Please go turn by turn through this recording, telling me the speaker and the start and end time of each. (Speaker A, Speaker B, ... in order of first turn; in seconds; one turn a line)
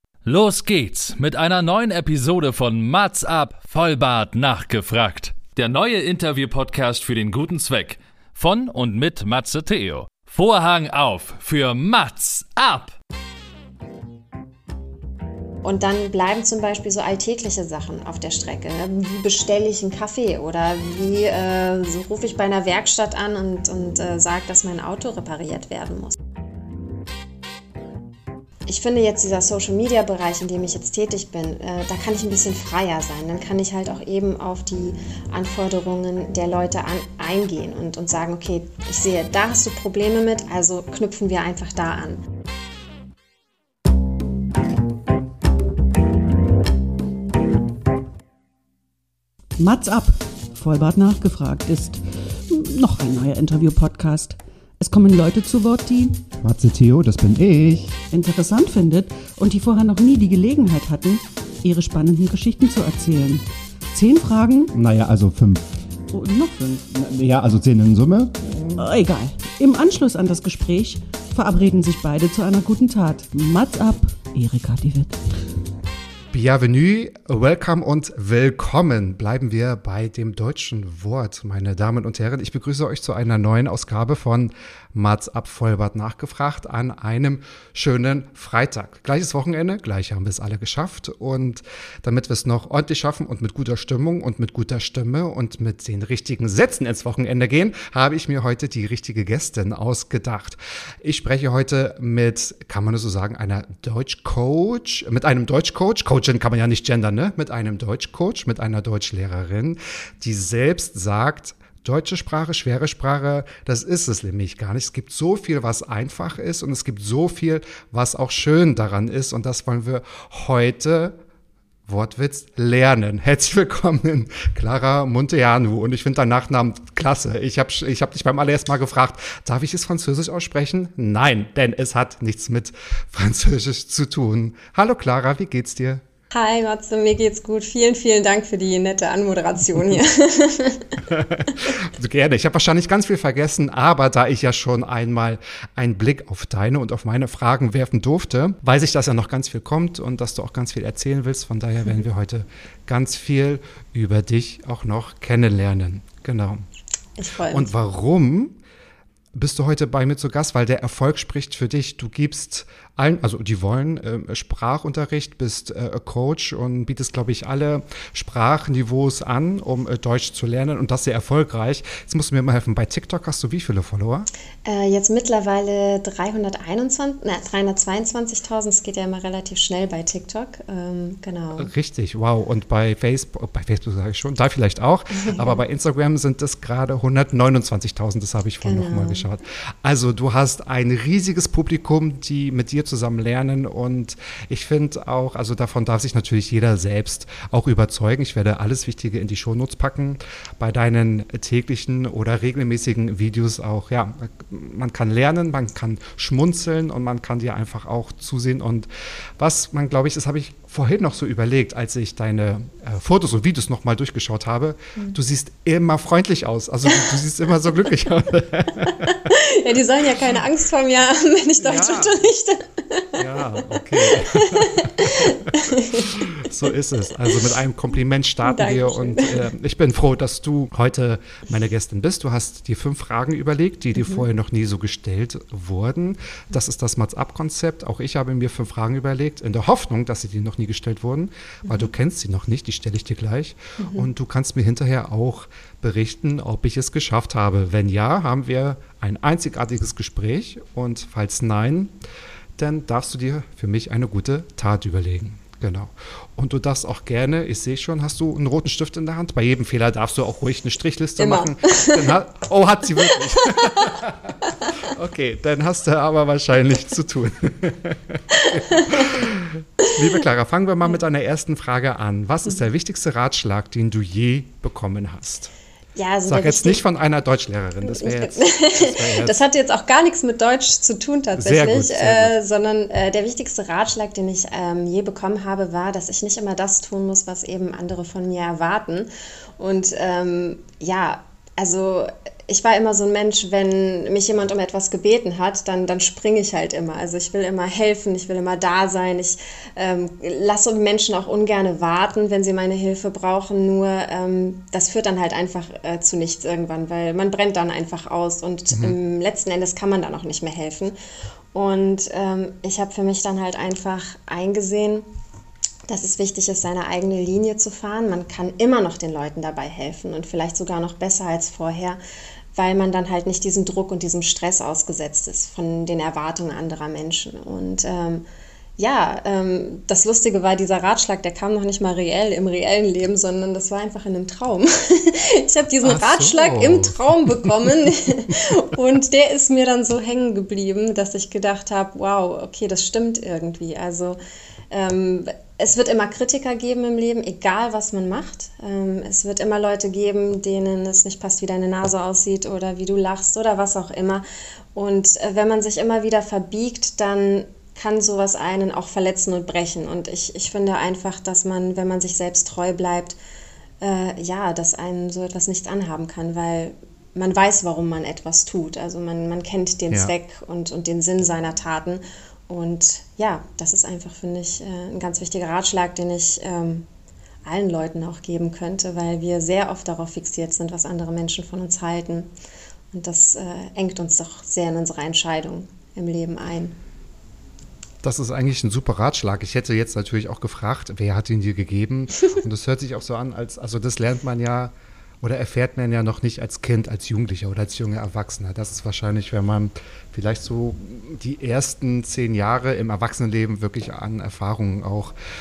Speaker A: 0.2-12.9
Speaker B: 15.6-26.2
Speaker B: 28.7-42.2
Speaker C: 49.6-56.2
Speaker D: 56.4-58.0
Speaker C: 58.1-64.7
Speaker D: 64.7-65.7
Speaker C: 66.1-66.9
Speaker D: 66.9-68.8
Speaker C: 68.7-75.2
Speaker D: 76.3-121.2
Speaker D: 121.9-136.0
Speaker B: 136.3-140.9
Speaker D: 141.0-156.6
Speaker B: 157.2-157.7
Speaker D: 157.5-158.6
Speaker D: 159.3-174.3
Speaker B: 174.6-181.7
Speaker D: 181.6-219.2
Speaker B: 185.2-185.6
Speaker B: 188.6-189.2
Speaker B: 219.1-223.2
Speaker D: 221.6-222.2
Speaker D: 223.2-251.9
Speaker B: 223.9-226.1
Speaker B: 228.4-229.5
Speaker B: 234.0-234.2
Speaker B: 243.8-244.1
Speaker D: 252.6-275.5
Speaker B: 261.2-262.1
Speaker B: 268.3-269.2
Speaker B: 275.9-276.8
Speaker D: 276.3-279.4
Speaker B: 277.8-310.9
Speaker D: 281.4-282.3
Speaker B: 311.5-315.1
Speaker B: 315.9-322.0
Speaker B: 322.5-328.2
Speaker B: 328.8-344.2
Speaker D: 335.8-337.7
Speaker B: 344.7-363.2
Speaker B: 363.8-376.9
Speaker B: 377.4-382.3
Speaker B: 382.9-386.8
Speaker D: 388.0-405.1